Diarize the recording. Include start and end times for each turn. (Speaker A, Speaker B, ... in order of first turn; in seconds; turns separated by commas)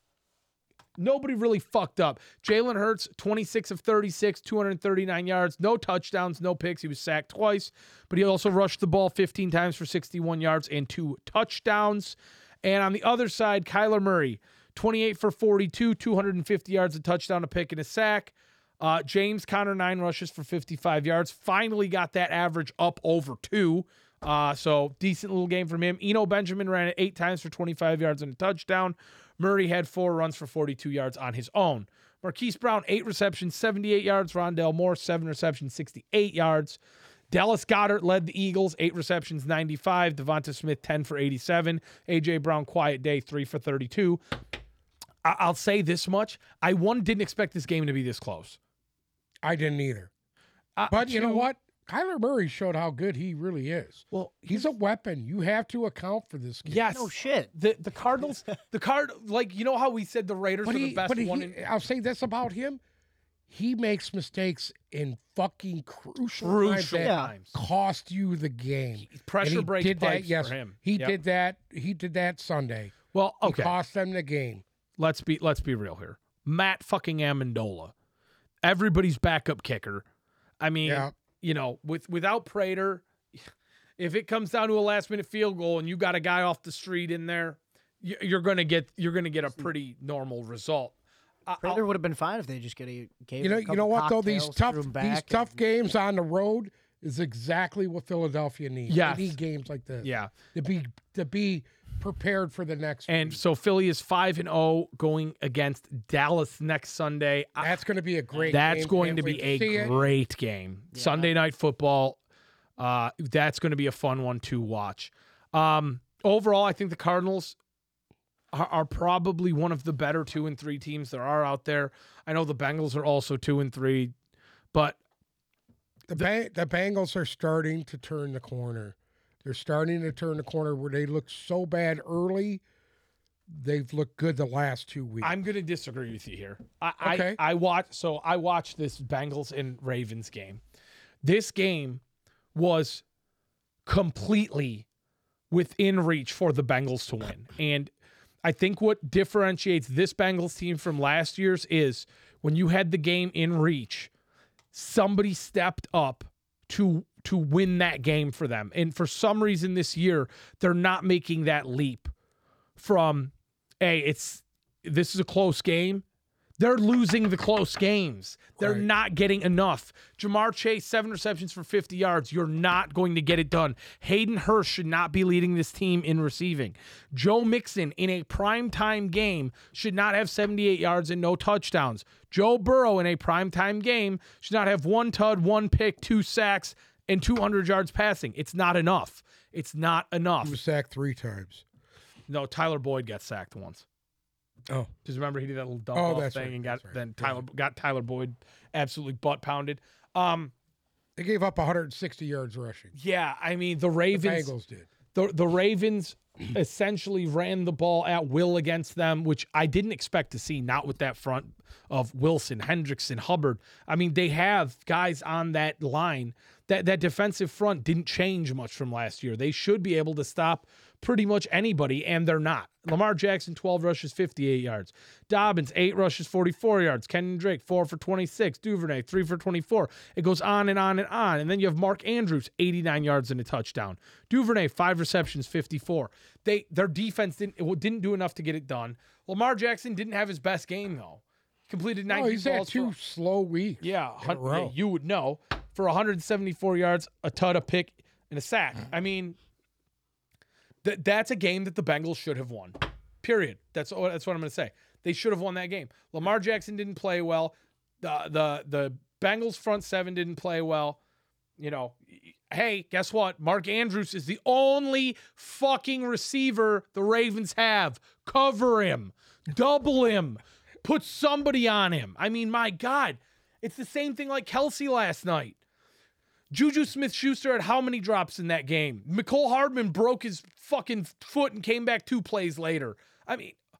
Speaker A: 1.0-36.8, Speaker A: 37.3-44.2, Speaker A: 45.2-48.6, Speaker B: 49.4-50.1, Speaker A: 50.8-51.5, Speaker B: 50.9-56.9, Speaker A: 54.1-54.7, Speaker A: 56.6-61.6, Speaker C: 56.9-57.5, Speaker B: 60.6-62.8, Speaker B: 63.5-74.6, Speaker A: 66.4-67.5, Speaker C: 67.0-67.3, Speaker A: 69.0-71.2, Speaker A: 73.1-73.7, Speaker A: 75.0-77.9, Speaker A: 78.6-80.0, Speaker A: 80.6-83.3, Speaker B: 80.8-81.1, Speaker A: 84.0-91.0, Speaker A: 91.5-91.8, Speaker C: 91.6-95.5, Speaker B: 93.4-103.4, Speaker A: 98.9-99.4, Speaker A: 100.0-100.3, Speaker A: 103.1-107.7, Speaker B: 107.6-110.0, Speaker C: 108.3-108.8, Speaker A: 108.5-112.2, Speaker C: 110.9-111.3, Speaker A: 112.8-117.5, Speaker A: 118.5-124.1, Speaker A: 124.7-125.0, Speaker B: 126.1-132.6, Speaker B: 133.5-135.4, Speaker A: 135.2-140.6, Speaker B: 137.0-137.4, Speaker A: 141.2-142.0, Speaker A: 142.5-143.0, Speaker A: 143.8-144.8, Speaker A: 145.5-147.9, Speaker A: 148.4-154.1, Speaker A: 154.7-162.1, Speaker A: 162.8-166.0, Speaker A: 166.6-190.6, Speaker B: 168.6-168.9, Speaker B: 190.4-191.6, Speaker A: 192.3-193.8, Speaker A: 195.0-200.5, Speaker B: 195.9-197.4, Speaker B: 201.2-202.9, Speaker A: 202.9-204.5, Speaker B: 204.1-204.9, Speaker A: 205.1-242.9, Speaker B: 242.1-244.7, Speaker A: 243.8-249.3, Speaker A: 250.8-261.0, Speaker A: 261.6-275.6, Speaker A: 276.5-283.6